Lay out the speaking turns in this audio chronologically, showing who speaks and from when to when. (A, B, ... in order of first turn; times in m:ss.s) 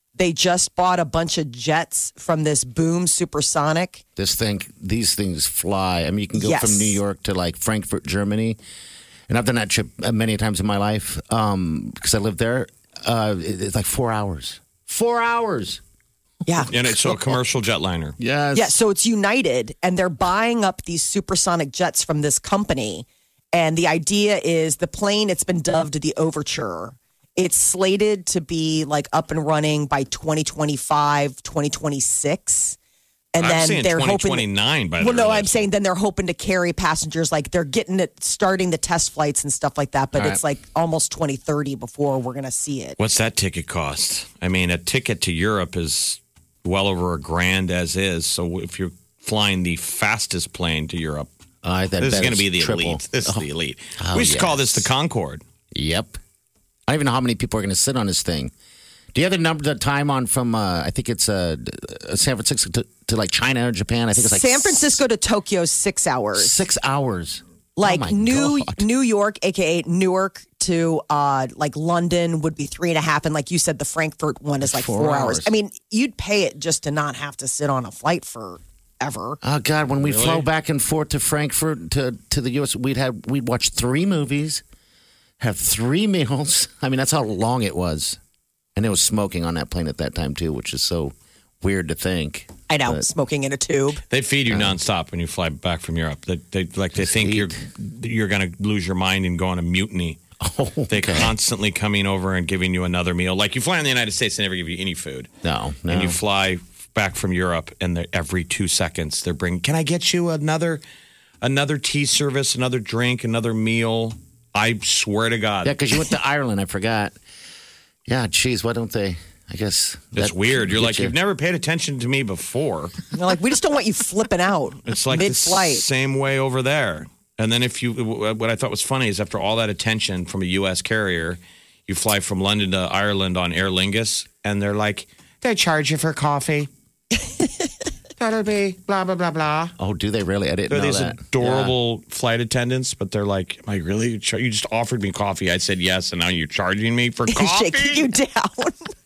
0:00.2-0:04.0 A
0:04.2-0:08.6 B
0:06.4-0:07.0 A
0:09.3-0:15.8 B
0:16.7-0:18.2 C
0:16.8-0:17.3 B
0:18.2-0:18.8 B
0:18.5-0:32.8 A
0:33.3-0:34.5 A
0:33.4-0:35.6 C
0:35.0-0:43.0 A
0:40.2-0:40.4 B
0:43.0-0:51.3 C
0:51.6-0:53.4 B
0:52.0-0:55.4 C
0:54.0-0:54.8 B
0:55.7-0:56.2 B
0:56.9-0:58.5 B
0:59.1-1:05.0 B
1:04.2-1:06.6 A
1:06.4-1:08.8 B
1:07.8-1:19.4 A
1:14.6-1:15.5 B
1:19.4-1:24.6 B
1:20.0-1:20.4 C
1:25.4-1:28.2 B
1:28.8-1:33.1 B
1:32.7-1:34.0 A
1:34.1-1:40.2 C
1:34.5-1:34.8 B
1:37.0-1:37.6 B
1:40.4-1:41.3 B
1:40.9-1:45.3 C
1:45.4-1:46.2 B
1:45.9-1:50.8 C
1:51.4-1:55.8 C
1:55.6-1:57.2 B
1:58.1-2:01.1 B
2:00.1-2:03.0 C
2:03.1-2:05.8 A
2:04.9-2:16.7 C
2:18.2-2:19.7 C
2:19.8-2:21.7 B
2:20.7-2:28.1 C
2:27.3-2:28.9 A